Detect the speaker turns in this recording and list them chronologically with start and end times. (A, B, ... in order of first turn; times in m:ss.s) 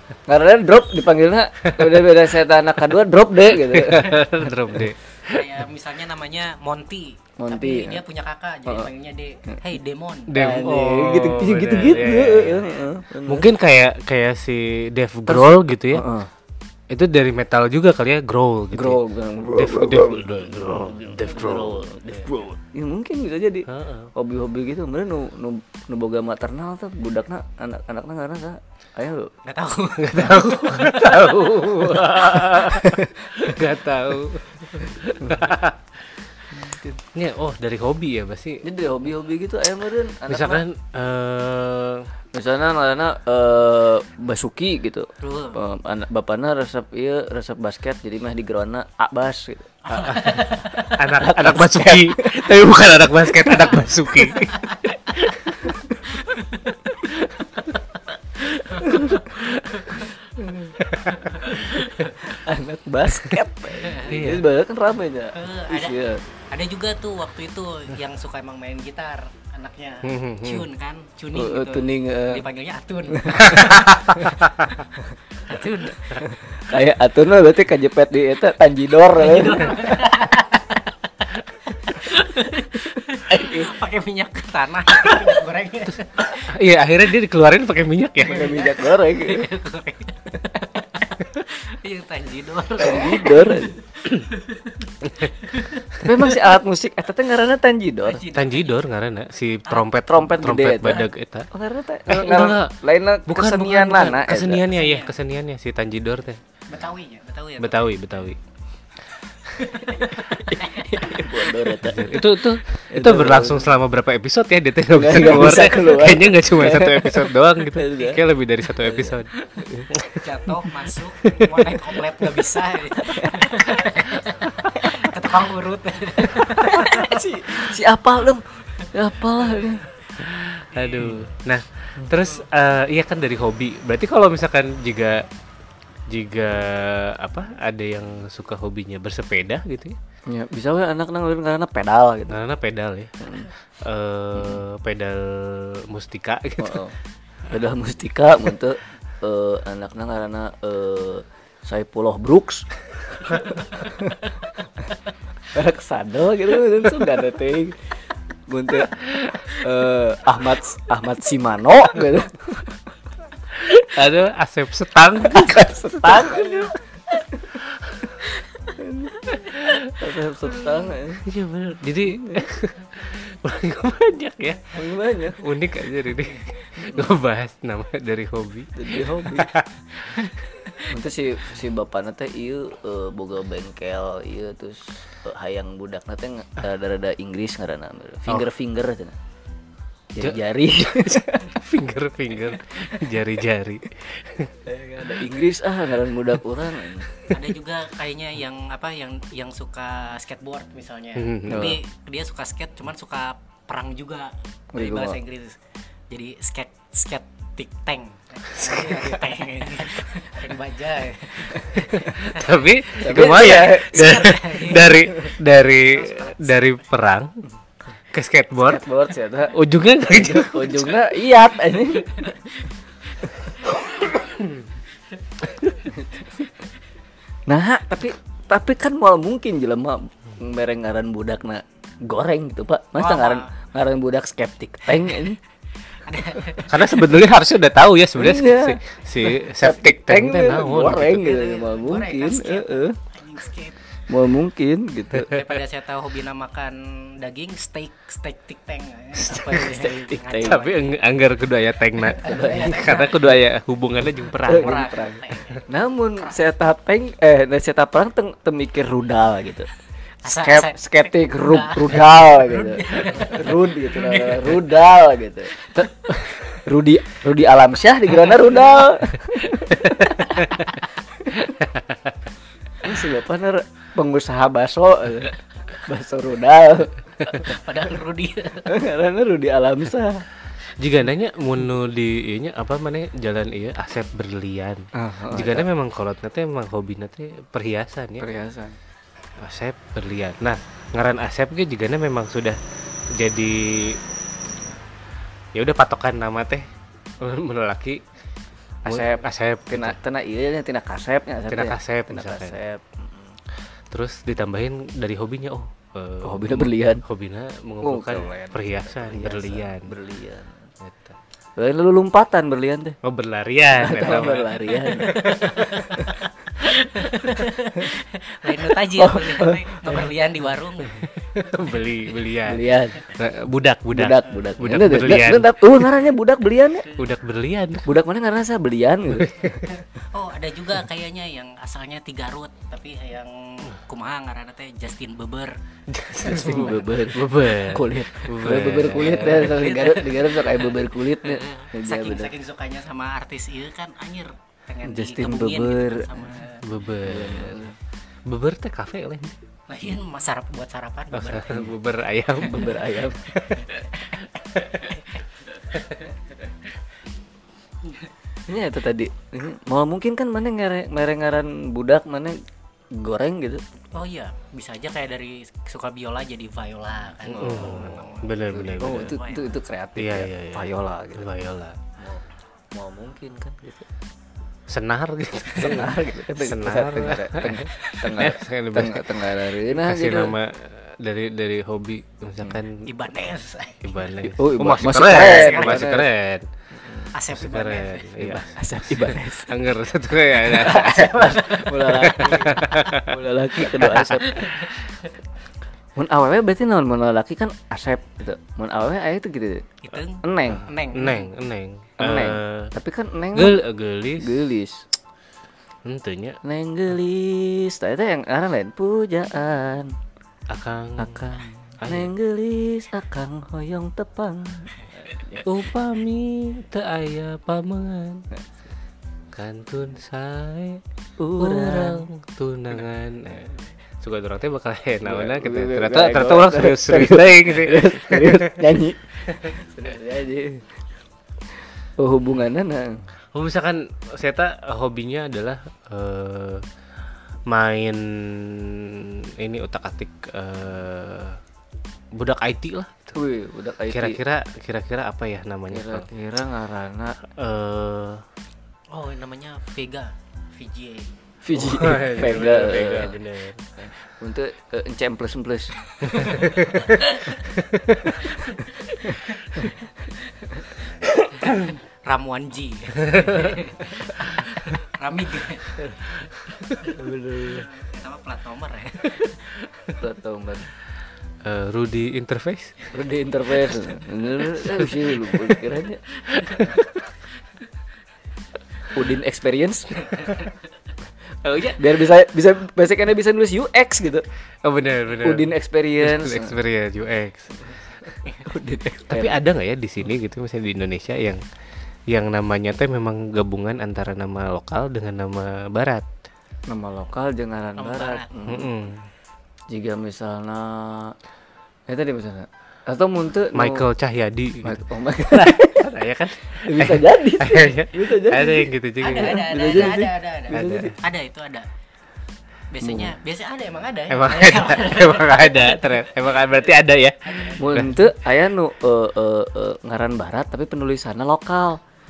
0:00.3-0:04.3 A
0:03.6-0:05.4 B
0:05.3-0:10.3 C
0:07.4-0:08.0 A
0:10.3-0:12.6 B
0:10.3-0:13.5 A
0:13.2-0:16.0 B
0:15.3-0:16.3 A
0:16.9-0:19.0 B
0:18.7-0:29.3 A
0:19.5-0:22.2 B
0:23.7-0:24.1 B
0:29.4-0:30.6 C
0:30.0-0:35.8 B
0:30.8-0:33.4 A
0:36.5-0:37.0 A
0:37.1-0:38.6 B
0:38.6-0:40.6 A
0:40.3-0:42.1 B
0:42.3-0:50.3 A
0:45.2-0:45.6 C
0:49.9-0:51.0 C
0:50.1-0:55.6 B
0:51.1-0:52.7 A
0:53.2-0:53.7 A
0:54.5-0:54.8 C
0:55.6-0:56.1 A
0:56.1-0:56.7 C
0:57.6-0:58.0 C
0:58.6-1:00.1 C
0:58.8-0:59.2 A
0:58.9-0:59.8 B
1:00.4-1:00.8 A
1:00.8-1:01.6 B
1:01.4-1:01.7 A
1:01.5-1:02.1 C
1:02.2-1:06.2 A
1:03.8-1:04.1 C
1:04.1-1:04.5 B
1:05.4-1:06.0 C
1:06.5-1:14.1 C
1:10.0-1:10.7 B
1:11.3-1:12.4 A
1:13.1-1:13.5 A
1:13.5-1:14.7 B
1:15.4-1:16.2 C
1:16.4-1:20.1 A
1:19.1-1:20.9 C
1:21.7-1:26.5 C
1:23.2-1:23.7 A
1:26.3-1:28.5 B
1:28.2-1:29.5 A
1:28.3-1:36.4 C
1:32.8-1:33.8 A
1:36.0-1:38.2 A
1:38.0-1:38.8 C
1:38.3-1:41.5 B
1:40.1-1:44.6 A
1:42.1-1:46.4 B
1:44.7-1:45.1 C
1:46.7-1:47.9 C
1:47.6-1:48.4 B
1:49.6-1:51.5 C
1:50.5-1:52.2 A
1:51.8-1:59.3 B
1:52.9-1:53.7 A
1:54.9-1:58.2 A
1:58.8-1:59.9 A
1:59.9-2:00.3 B
2:00.2-2:07.3 C
2:01.2-2:01.9 B
2:03.0-2:03.5 A
2:06.4-2:09.8 A
2:10.2-2:15.2 B
2:10.7-2:11.2 C
2:16.1-2:20.0 B
2:20.3-2:22.4 A
2:22.3-2:23.3 B
2:23.2-2:23.5 A
2:23.8-2:26.8 B
2:24.4-2:24.6 A
2:26.6-2:26.9 A
2:27.5-2:32.7 A
2:33.2-2:34.7 A
2:35.5-2:37.8 A
2:38.5-2:42.9 A
2:39.1-2:39.3 B
2:43.6-2:46.6 B
2:45.2-2:47.5 A
2:47.6-2:48.1 B
2:48.8-2:49.4 A
2:49.4-2:50.0 B
2:49.9-2:51.2 A
2:51.2-2:54.8 B
2:52.0-2:52.4 A
2:54.7-2:55.4 A
2:55.4-3:00.8 B
2:56.8-2:57.1 A
2:58.8-2:59.5 A
3:00.9-3:09.2 A
3:10.1-3:11.6 A
3:10.2-3:14.5 B
3:14.6-3:17.1 A
3:17.3-3:25.6 C
3:21.2-3:21.7 B
3:21.5-3:21.8 A
3:24.7-3:25.2 A
3:26.1-3:35.0 C
3:28.5-3:29.1 B
3:31.9-3:37.4 B
3:33.0-3:34.2 A
3:35.9-3:36.8 C
3:38.1-3:38.8 B
3:38.6-3:42.2 A
3:39.5-3:41.0 B
3:42.0-3:44.2 C
3:44.1-3:44.4 B
3:45.9-3:46.3 A
3:47.5-3:55.4 A
3:53.0-3:53.5 C
3:55.9-3:56.8 C
3:56.7-4:01.3 B
3:58.2-4:03.0 A
4:01.2-4:03.8 C
4:04.1-4:05.3 A
4:05.1-4:05.5 B
4:05.2-4:10.9 C
4:09.2-4:14.8 B
4:09.5-4:10.6 A
4:12.2-4:13.0 A
4:12.2-4:13.1 C
4:14.4-4:19.7 A
4:14.5-4:15.6 C
4:20.2-4:24.4 C
4:20.2-4:30.5 A
4:30.0-4:30.6 B
4:31.2-4:31.5 A
4:31.6-4:32.1 B
4:32.8-4:37.4 A
4:37.3-4:38.8 C
4:38.6-4:40.2 A
4:40.8-4:48.2 B
4:45.0-4:45.7 A
4:48.2-4:48.8 A
4:49.4-4:52.6 B
4:53.1-4:54.0 B
4:55.5-4:56.6 B
4:57.2-4:58.0 B
4:58.8-5:00.0 B
4:58.8-5:03.4 A
5:01.5-5:02.6 B
5:03.9-5:09.9 B
5:06.2-5:07.0 A
5:07.8-5:10.7 A
5:10.8-5:11.1 B
5:11.6-5:13.0 A
5:13.0-5:15.2 B
5:13.7-5:16.1 A
5:15.0-5:21.1 C
5:18.7-5:20.0 A
5:21.3-5:25.8 B
5:22.4-5:23.0 A
5:23.9-5:26.9 A
5:26.9-5:27.9 B
5:27.8-5:29.4 A
5:29.1-5:29.6 B
5:29.6-5:35.5 C
5:35.9-5:39.6 B
5:36.2-5:42.3 A
5:39.2-5:46.6 C
5:44.8-5:46.1 A
5:46.6-5:47.6 B
5:47.0-5:47.8 A
5:48.3-5:49.4 B
5:49.7-5:51.7 C
5:51.1-5:53.9 B
5:52.4-5:53.3 A
5:54.6-5:54.9 B
5:58.5-6:02.4 A
6:02.9-6:03.6 A
6:03.9-6:09.5 C
6:07.3-6:08.0 A
6:07.3-6:09.2 B
6:08.5-6:11.3 A
6:10.0-6:11.8 B
6:12.0-6:13.9 A
6:14.7-6:22.8 B
6:15.5-6:20.3 A
6:22.8-6:24.0 C
6:23.8-6:26.4 B
6:24.2-6:26.1 A
6:25.1-6:25.9 C
6:26.8-6:27.1 A
6:27.1-6:28.4 C
6:27.3-6:34.3 B
6:28.2-6:29.6 A
6:30.4-6:34.5 A
6:30.7-6:31.7 C
6:32.2-6:32.6 C
6:34.2-6:34.8 C
6:36.0-6:39.6 A
6:39.8-6:41.3 C
6:40.2-6:40.6 A
6:40.5-6:42.7 B
6:42.0-6:43.6 A
6:43.3-6:44.5 B
6:44.2-6:44.8 A
6:45.8-6:46.4 B
6:46.4-6:49.9 A
6:50.5-6:52.1 B
6:51.0-6:55.4 A
6:55.4-6:58.2 B
6:59.3-7:00.8 B
7:01.2-7:02.0 A
7:01.4-7:08.6 B
7:05.0-7:10.7 A
7:12.0-7:13.0 A
7:13.3-7:16.6 B
7:17.5-7:21.4 B
7:22.1-7:23.2 B
7:23.1-7:24.2 A
7:23.9-7:26.1 B
7:25.7-7:27.2 A
7:27.3-7:28.2 B
7:28.9-7:31.1 C
7:31.4-7:33.2 A
7:31.5-7:33.6 B
7:33.8-7:35.8 A
7:36.1-7:37.0 B
7:36.9-7:37.3 C
7:37.6-7:38.1 B
7:38.3-7:39.7 C
7:42.0-7:45.8 C
7:43.1-7:43.4 B
7:46.9-7:47.7 A
7:47.5-7:49.4 C
7:49.9-7:50.7 A
7:51.4-7:52.7 B
7:52.9-7:56.0 A
7:54.8-7:55.5 B
7:56.4-7:56.7 B
7:58.9-8:00.3 A
8:01.4-8:04.2 A
8:04.6-8:07.7 B
8:05.2-8:06.6 A
8:08.4-8:09.4 A
8:09.1-8:11.4 B
8:12.1-8:16.0 B
8:16.7-8:18.7 A
8:17.8-8:18.3 C
8:18.5-8:19.1 B
8:19.7-8:21.1 A
8:21.9-8:23.8 A
8:23.5-8:29.9 B
8:24.6-8:25.9 A
8:26.6-8:30.9 A
8:29.0-8:31.7 C
8:30.5-8:30.9 B
8:32.7-8:36.1 C
8:32.8-8:33.2 A
8:34.1-8:38.0 B
8:37.2-8:37.7 C
8:37.6-8:41.8 A